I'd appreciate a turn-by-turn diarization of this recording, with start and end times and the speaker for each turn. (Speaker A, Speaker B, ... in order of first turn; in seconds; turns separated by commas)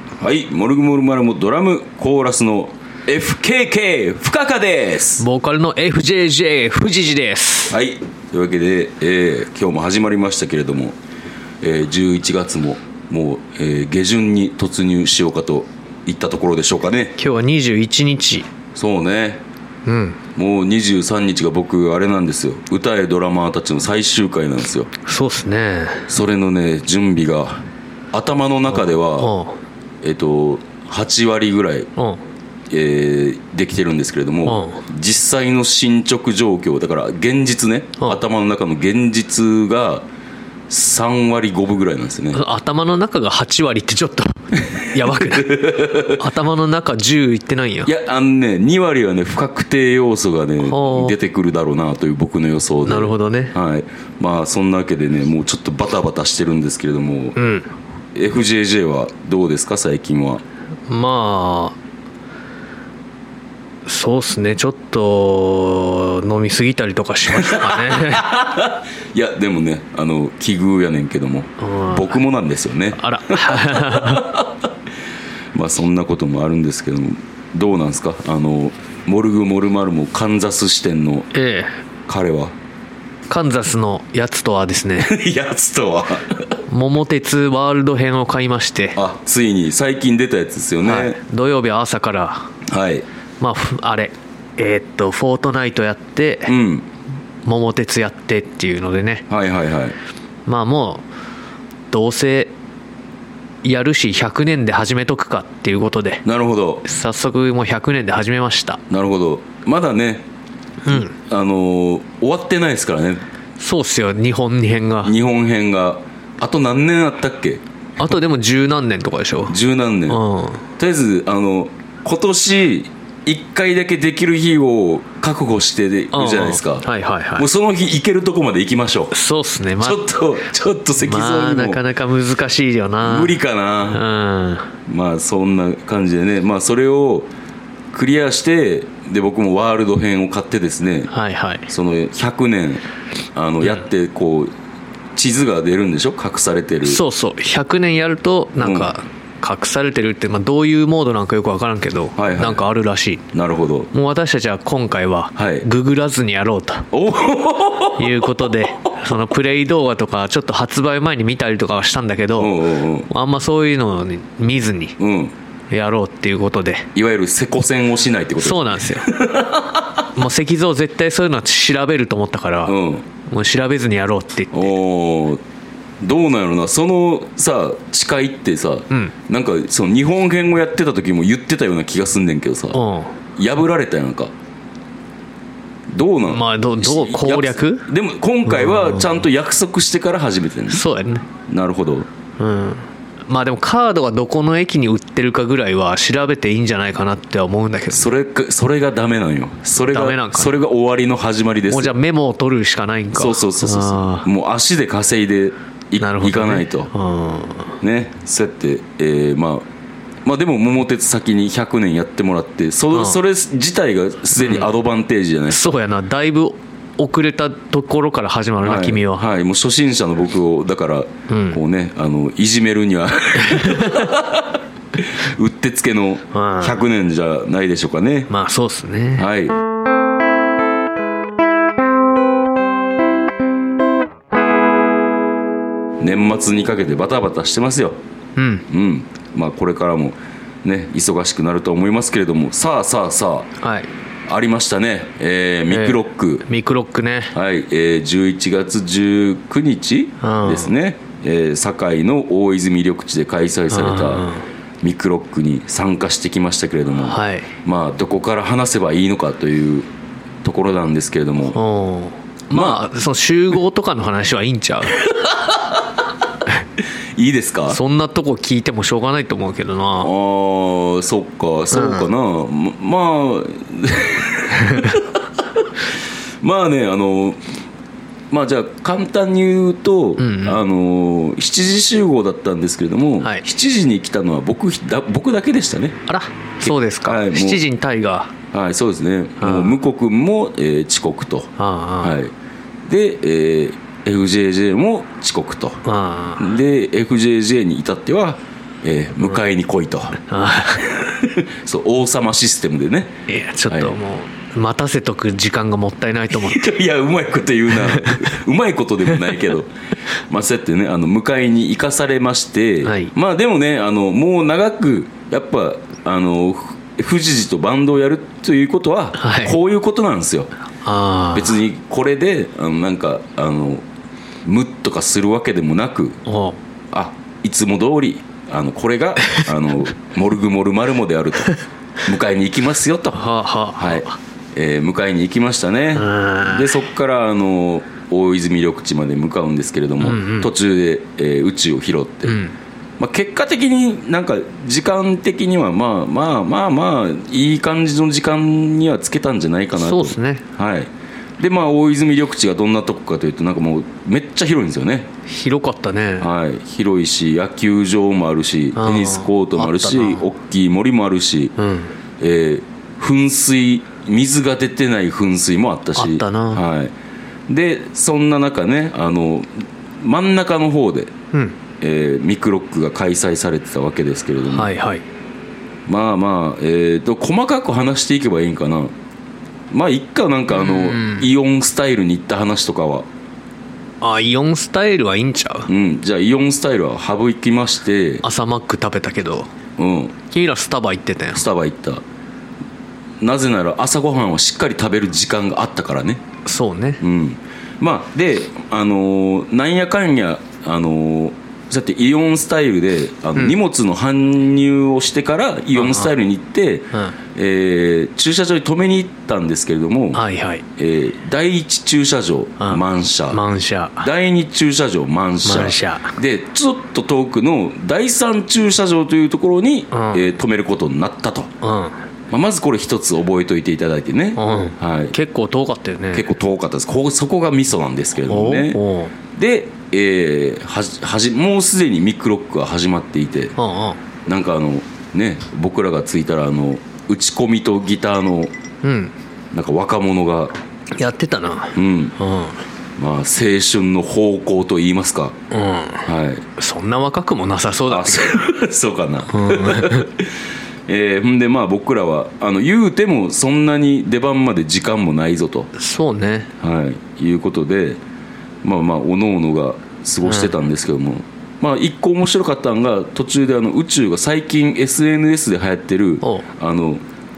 Speaker A: 0.2-5.2, Speaker B: 5.2-7.8, Speaker A: 7.7-11.0, Speaker A: 11.6-17.2, Speaker B: 17.2-18.5, Speaker A: 18.8-19.4, Speaker B: 19.9-20.2, Speaker A: 20.4-24.9, Speaker B: 25.1-26.1, Speaker A: 26.1-29.3, Speaker B: 29.2-29.6, Speaker A: 30.0-31.9, Speaker A: 32.7-40.1, Speaker B: 34.5-34.8, Speaker A: 40.7-42.4, Speaker B: 42.3-47.9, Speaker A: 44.7-46.2, Speaker A: 47.9-57.4, Speaker B: 50.6-51.2, Speaker B: 52.9-53.5, Speaker B: 57.4-57.7, Speaker A: 58.1-60.4, Speaker B: 60.9-61.8, Speaker B: 63.9-68.3, Speaker A: 67.3-74.7, Speaker B: 71.6-72.2, Speaker B: 73.0-74.3, Speaker A: 75.5-81.3, Speaker B: 81.3-81.8, Speaker A: 82.1-82.5, Speaker B: 83.3-85.1, Speaker A: 85.0-86.5, Speaker B: 86.7-89.0, Speaker A: 89.0-91.2, Speaker B: 90.8-92.5, Speaker A: 92.7-93.0, Speaker B: 93.4-96.5, Speaker A: 96.5-96.9, Speaker B: 97.5-99.3, Speaker A: 99.3-100.0, Speaker B: 100.5-101.0, Speaker B: 101.9-102.5, Speaker B: 103.6-106.2, Speaker A: 106.2-106.8, Speaker B: 106.8-108.8, Speaker A: 108.9-110.2, Speaker B: 110.9-111.2, Speaker A: 110.9-113.2, Speaker B: 113.6-115.1, Speaker A: 115.0-117.6, Speaker B: 118.0-119.6, Speaker A: 119.5-120.2, Speaker B: 120.1-120.7, Speaker A: 120.8-126.9, Speaker B: 126.1-127.5, Speaker A: 127.4-129.1, Speaker B: 129.1-130.0, Speaker A: 129.8-131.8, Speaker B: 131.0-134.7, Speaker A: 133.0-134.0, Speaker A: 134.9-137.3, Speaker A: 137.9-141.1, Speaker B: 141.1-141.7, Speaker A: 141.7-142.8, Speaker A: 143.3-144.5, Speaker A: 145.2-147.0, Speaker B: 146.8-153.2, Speaker A: 148.6-148.9, Speaker A: 152.2-152.6, Speaker A: 153.3-153.9, Speaker B: 153.9-156.9, Speaker A: 155.4-155.7, Speaker A: 156.9-158.5, Speaker B: 158.0-165.0, Speaker A: 162.4-163.1, Speaker A: 165.0-165.3, Speaker B: 165.7-166.9, Speaker A: 166.9-170.1, Speaker B: 168.4-169.1, Speaker B: 170.1-172.8, Speaker A: 172.7-173.1, Speaker B: 173.3-174.7, Speaker A: 174.5-175.4, Speaker A: 176.0-182.8, Speaker B: 182.7-183.1, Speaker A: 183.4-184.3, Speaker A: 185.9-190.8, Speaker B: 186.3-187.9, Speaker B: 188.5-189.2, Speaker B: 190.7-191.3, Speaker A: 191.5-192.1, Speaker B: 192.4-198.1, Speaker A: 197.9-201.9, Speaker B: 199.9-200.5, Speaker B: 201.7-204.3, Speaker A: 203.1-206.9, Speaker B: 206.0-207.7, Speaker A: 207.8-209.7, Speaker A: 210.2-215.7, Speaker B: 212.9-213.2, Speaker B: 214.4-214.7, Speaker B: 215.5-219.2, Speaker A: 218.6-228.3, Speaker B: 221.3-221.6, Speaker B: 223.4-224.1, Speaker B: 226.3-226.8, Speaker B: 228.3-229.3, Speaker A: 229.2-229.6, Speaker A: 236.0-238.0, Speaker B: 238.4-238.7, Speaker A: 238.7-243.5, Speaker B: 243.6-243.9, Speaker A: 244.3-246.4, Speaker B: 245.7-247.3, Speaker A: 247.3-254.3, Speaker B: 250.2-250.7, Speaker B: 253.7-254.5, Speaker A: 254.8-259.9, Speaker B: 257.1-257.5, Speaker A: 260.4-261.6, Speaker B: 261.5-265.0, Speaker A: 262.5-262.8, Speaker A: 265.1-265.9, Speaker A: 267.2-267.8, Speaker B: 267.7-270.1, Speaker A: 270.0-275.9, Speaker B: 271.7-272.1, Speaker B: 274.7-274.9, Speaker A: 276.4-277.4, Speaker A: 278.3-286.0, Speaker B: 280.2-280.6, Speaker B: 286.1-288.3, Speaker A: 286.6-287.6, Speaker A: 288.5-292.3, Speaker B: 289.4-289.8, Speaker B: 291.6-292.2, Speaker A: 292.9-295.8, Speaker B: 295.9-296.5, Speaker A: 296.4-300.2, Speaker B: 300.3-300.9, Speaker A: 300.9-303.1, Speaker B: 303.3-306.6, Speaker A: 303.7-303.9, Speaker A: 306.3-309.7, Speaker B: 307.8-308.3, Speaker A: 310.3-320.5, Speaker B: 312.8-313.1, Speaker B: 319.2-319.6, Speaker B: 320.8-321.5, Speaker A: 321.3-323.8, Speaker A: 324.4-326.2, Speaker B: 326.3-326.6, Speaker A: 326.9-342.4, Speaker B: 333.1-334.2, Speaker B: 335.9-336.7, Speaker B: 340.0-340.5, Speaker B: 342.3-342.6, Speaker A: 343.0-355.1, Speaker B: 349.7-350.4, Speaker B: 355.3-356.3, Speaker A: 356.2-361.5, Speaker B: 358.8-360.2, Speaker B: 361.6-361.9, Speaker A: 362.2-366.9, Speaker B: 366.0-366.6, Speaker A: 367.5-371.1, Speaker A: 371.8-374.7, Speaker B: 374.5-375.0, Speaker A: 375.9-378.9, Speaker A: 379.7-383.1, Speaker B: 380.5-381.3, Speaker B: 384.0-385.7, Speaker A: 385.7-388.2, Speaker B: 388.2-389.5, Speaker A: 389.8-390.1, Speaker B: 390.3-391.4, Speaker A: 391.3-392.0, Speaker A: 393.2-396.2, Speaker B: 396.5-397.0, Speaker A: 397.0-410.2, Speaker B: 405.8-406.1, Speaker B: 410.1-410.6, Speaker A: 410.8-413.4, Speaker B: 412.6-414.1, Speaker A: 414.0-421.5, Speaker B: 415.4-416.1, Speaker B: 419.9-420.2, Speaker B: 421.6-421.9, Speaker A: 422.3-425.1, Speaker B: 424.4-426.3, Speaker A: 426.1-428.8, Speaker B: 428.3-429.1, Speaker A: 429.3-433.5, Speaker B: 433.6-434.0, Speaker A: 434.3-438.5, Speaker B: 438.8-439.1, Speaker A: 439.5-440.5, Speaker B: 441.0-442.6, Speaker A: 441.8-442.1, Speaker A: 443.0-445.4, Speaker B: 445.5-448.4, Speaker A: 446.1-446.4, Speaker A: 447.9-450.3, Speaker B: 449.3-450.1, Speaker A: 450.9-455.7, Speaker B: 455.8-456.5, Speaker A: 456.6-458.0, Speaker A: 458.6-467.0, Speaker B: 460.2-460.5